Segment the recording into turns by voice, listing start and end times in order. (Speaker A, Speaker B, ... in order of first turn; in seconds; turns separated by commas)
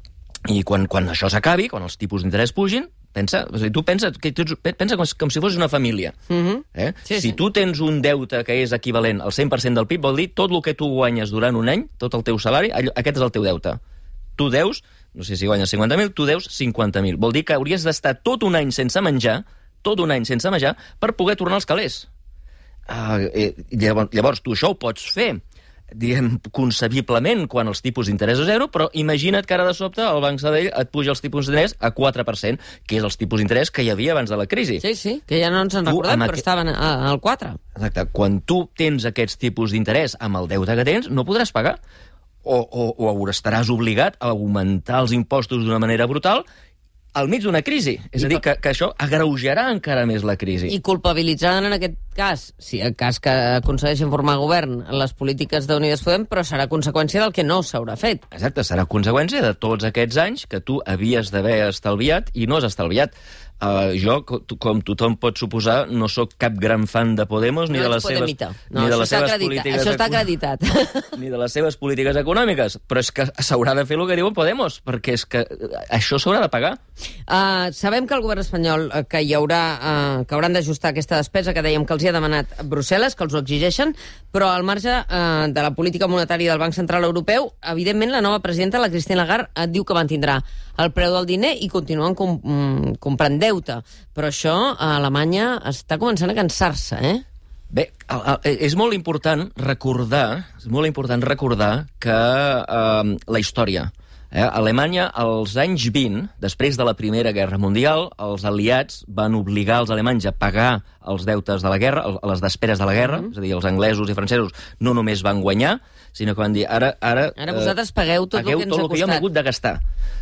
Speaker A: 0.5-6.1, Speaker B: 6.3-7.4, Speaker A: 6.7-13.8, Speaker A: 14.4-22.1, Speaker A: 22.9-25.4, Speaker A: 25.9-34.8, Speaker B: 34.8-37.6, Speaker A: 35.9-36.4, Speaker A: 37.8-41.8, Speaker A: 42.4-46.5, Speaker A: 47.1-50.7, Speaker B: 50.7-58.2, Speaker A: 58.3-70.2, Speaker B: 67.7-71.1, Speaker A: 71.1-76.8, Speaker B: 77.3-97.2, Speaker A: 97.7-117.7, Speaker B: 117.4-119.2, Speaker A: 118.3-119.8